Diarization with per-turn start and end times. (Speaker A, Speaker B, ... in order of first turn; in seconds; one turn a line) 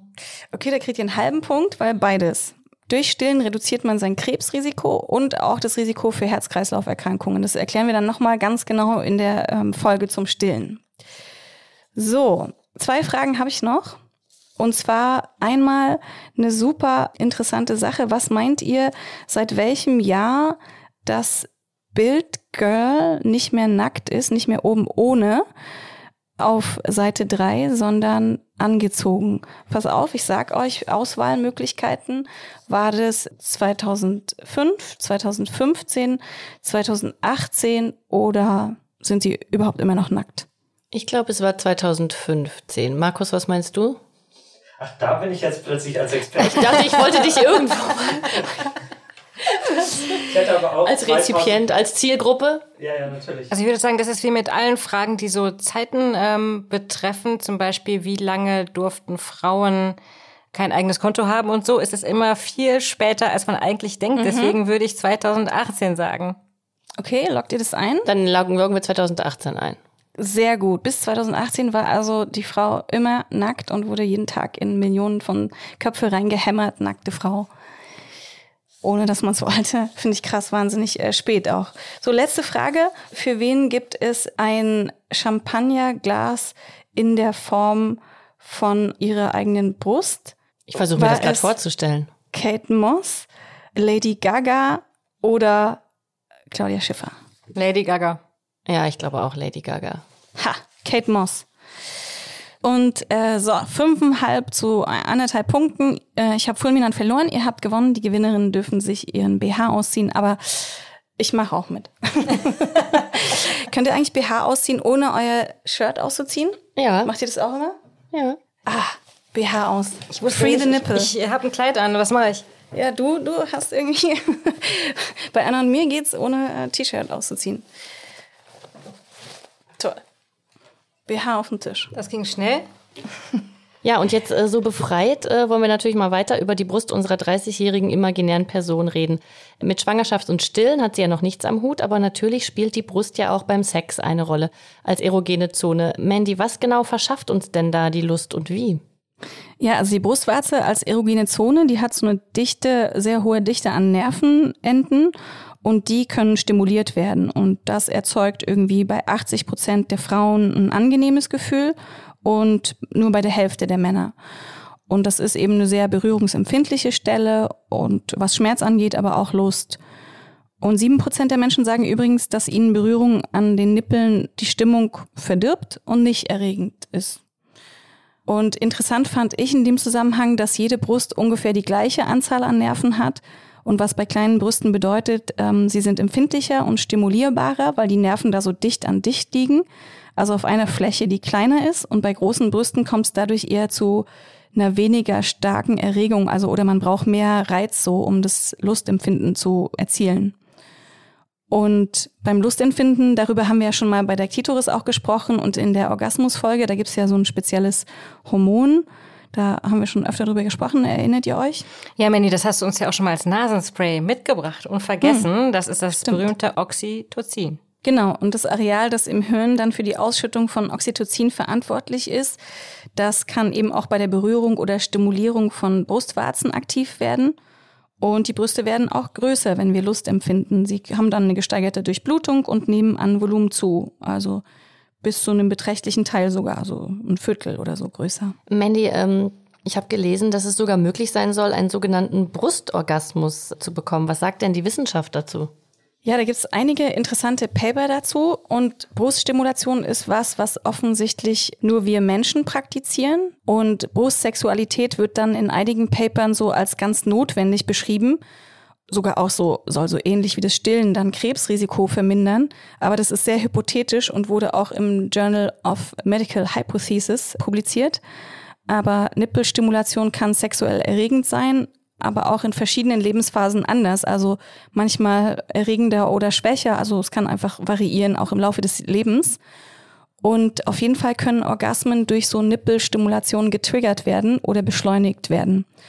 Speaker A: 0.5-10.8
Speaker A: 11.9-14.0
Speaker A: 14.6-25.4
Speaker A: 26.4-40.5
Speaker B: 40.9-44.0
Speaker C: 44.8-47.4
Speaker B: 46.4-48.4
Speaker C: 50.2-51.6
Speaker B: 50.8-52.6
Speaker C: 52.8-53.5
Speaker D: 53.5-60.0
Speaker D: 60.5-66.4
Speaker A: 64.2-64.6
Speaker A: 67.0-68.1
Speaker B: 68.0-69.8
Speaker A: 70.2-77.5
Speaker A: 78.8-90.3
Speaker B: 90.7-92.1
Speaker A: 90.9-91.5
Speaker A: 92.3-95.8
Speaker A: 96.5-97.1
Speaker D: 97.5-98.2
Speaker B: 98.7-100.0
Speaker A: 100.4-101.5
Speaker A: 102.6-117.8
Speaker B: 116.8-117.1
Speaker B: 118.1-118.4
Speaker A: 118.7-121.1
Speaker D: 120.1-122.4
Speaker A: 122.7-127.6
Speaker A: 131.1-131.9
Speaker D: 131.9-132.7
Speaker B: 133.8-148.8
Speaker A: 149.6-164.1
Speaker A: 164.9-169.8
Speaker A: 170.6-177.2
Speaker A: 178.3-189.6
Speaker A: 190.2-200.3
Speaker A: 201.5-211.6
Speaker D: 212.0-217.6
Speaker A: 215.0-215.3
Speaker A: 217.8-222.4
Speaker A: 222.9-227.3
Speaker A: 228.0-234.4
Speaker A: 235.0-238.3
Speaker B: 238.5-245.5
Speaker A: 246.0-258.2
Speaker A: 258.9-268.0
Speaker A: 268.7-279.4
Speaker A: 280.2-285.6